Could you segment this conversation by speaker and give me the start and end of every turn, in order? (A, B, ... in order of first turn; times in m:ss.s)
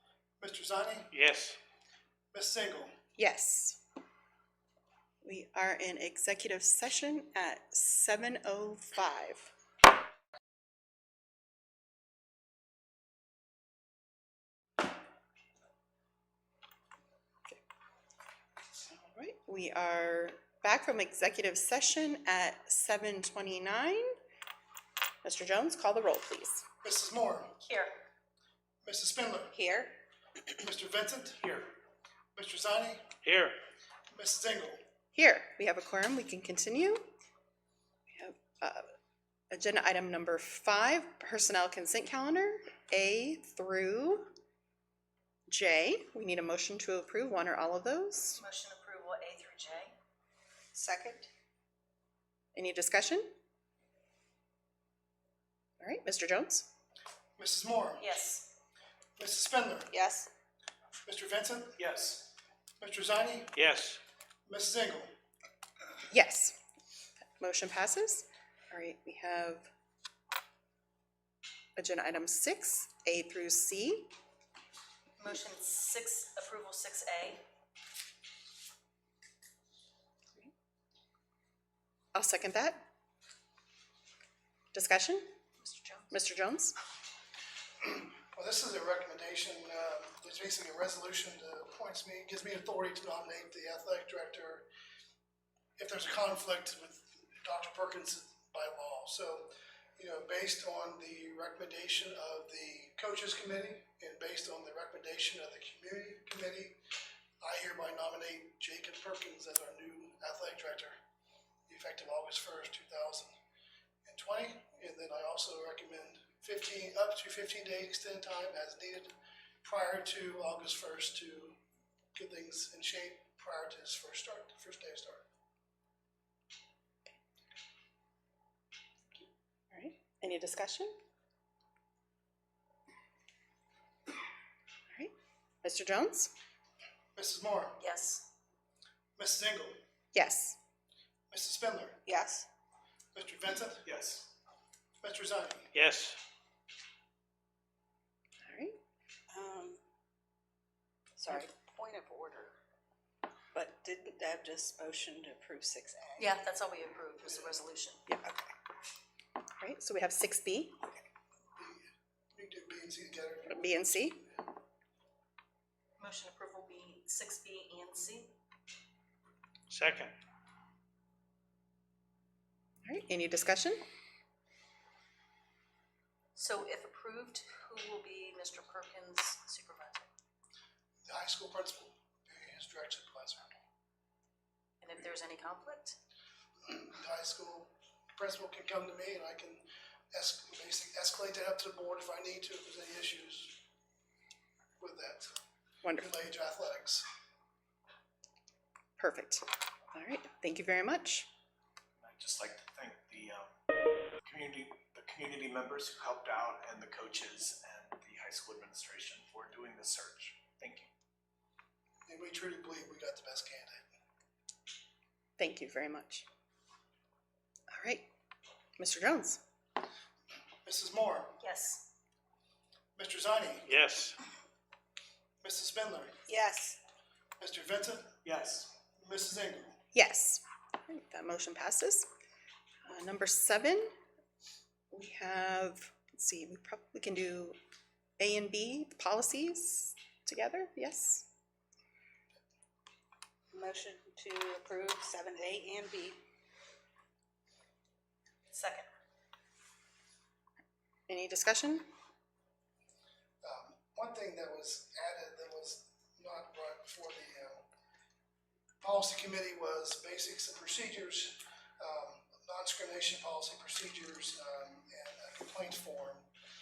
0:00.4-0:01.1 A
0:01.1-0:01.6 B
0:02.3-0:02.9 A
0:03.2-0:03.8 C
0:05.2-0:09.5 C
0:18.9-0:24.1 C
0:25.2-0:26.6 C
0:26.8-0:27.6 A
0:27.6-0:27.9 D
0:28.8-0:29.6 A
0:29.5-0:30.0 E
0:30.6-0:31.6 A
0:32.3-0:33.1 A
0:33.2-0:33.6 B
0:34.1-0:34.8 A
0:35.1-0:37.1 C
0:38.1-0:38.8 C
0:39.5-0:44.3 C
0:45.5-0:48.4 C
0:48.3-0:50.0 D
0:50.7-0:51.3 E
0:52.5-0:53.3 C
0:55.8-0:56.7 C
0:57.4-0:58.1 A
0:58.0-0:58.5 D
0:59.2-0:59.9 A
0:59.9-1:00.3 E
1:01.0-1:01.8 A
1:01.8-1:02.3 F
1:02.8-1:03.6 A
1:03.5-1:04.0 B
1:04.4-1:05.1 A
1:06.1-1:06.6 C
1:07.4-1:09.7 C
1:11.8-1:14.1 C
1:15.2-1:17.4 D
1:22.1-1:22.8 C
1:24.7-1:25.3 C
1:25.6-1:26.2 D
1:26.1-1:26.8 C
1:27.8-1:34.7 A
1:35.8-1:46.8 A
1:47.4-1:51.0 A
1:51.7-1:53.3 A
1:54.0-1:59.1 A
1:59.6-2:01.6 A
2:02.1-2:05.2 A
2:09.7-2:10.9 C
2:15.6-2:16.3 C
2:17.1-2:17.8 A
2:17.8-2:18.3 D
2:19.2-2:19.8 A
2:20.1-2:20.6 C
2:21.3-2:22.0 A
2:22.0-2:22.5 E
2:23.1-2:23.9 A
2:23.8-2:24.3 F
2:25.0-2:25.7 A
2:25.7-2:26.2 B
2:28.4-2:28.8 C
2:29.3-2:29.8 E
2:31.2-2:32.6 E
2:33.5-2:36.4 E
2:36.2-2:38.0 D
2:37.2-2:37.6 A
2:38.2-2:38.5 E
2:39.6-2:40.8 C
2:41.5-2:44.1 A
2:43.4-2:44.2 C
2:46.0-2:48.3 D
2:49.7-2:50.2 B
2:52.8-2:53.8 C
2:56.3-3:00.1 D
3:01.0-3:03.6 A
3:04.8-3:06.0 D
3:06.6-3:13.6 A
3:14.8-3:15.3 A
3:15.8-3:16.1 C
3:16.0-3:17.0 A
3:19.0-3:21.3 C
3:22.0-3:23.5 F
3:24.2-3:30.9 F
3:32.0-3:33.8 A
3:35.4-3:36.2 C
3:37.7-3:38.0 C
3:38.8-3:39.4 C
3:40.6-3:41.4 A
3:41.4-3:41.9 D
3:43.0-3:43.7 A
3:43.7-3:44.2 B
3:45.4-3:46.2 A
3:46.3-3:46.8 E
3:47.4-3:49.8 A
3:48.2-3:48.7 F
3:49.9-3:52.1 C
3:52.8-3:53.9 C
3:54.9-3:57.6 C
3:58.2-4:01.3 C
4:03.5-4:06.2 E
4:08.5-4:08.9 D
4:11.1-4:11.9 C
4:13.4-4:17.6 A
4:18.8-4:26.3 A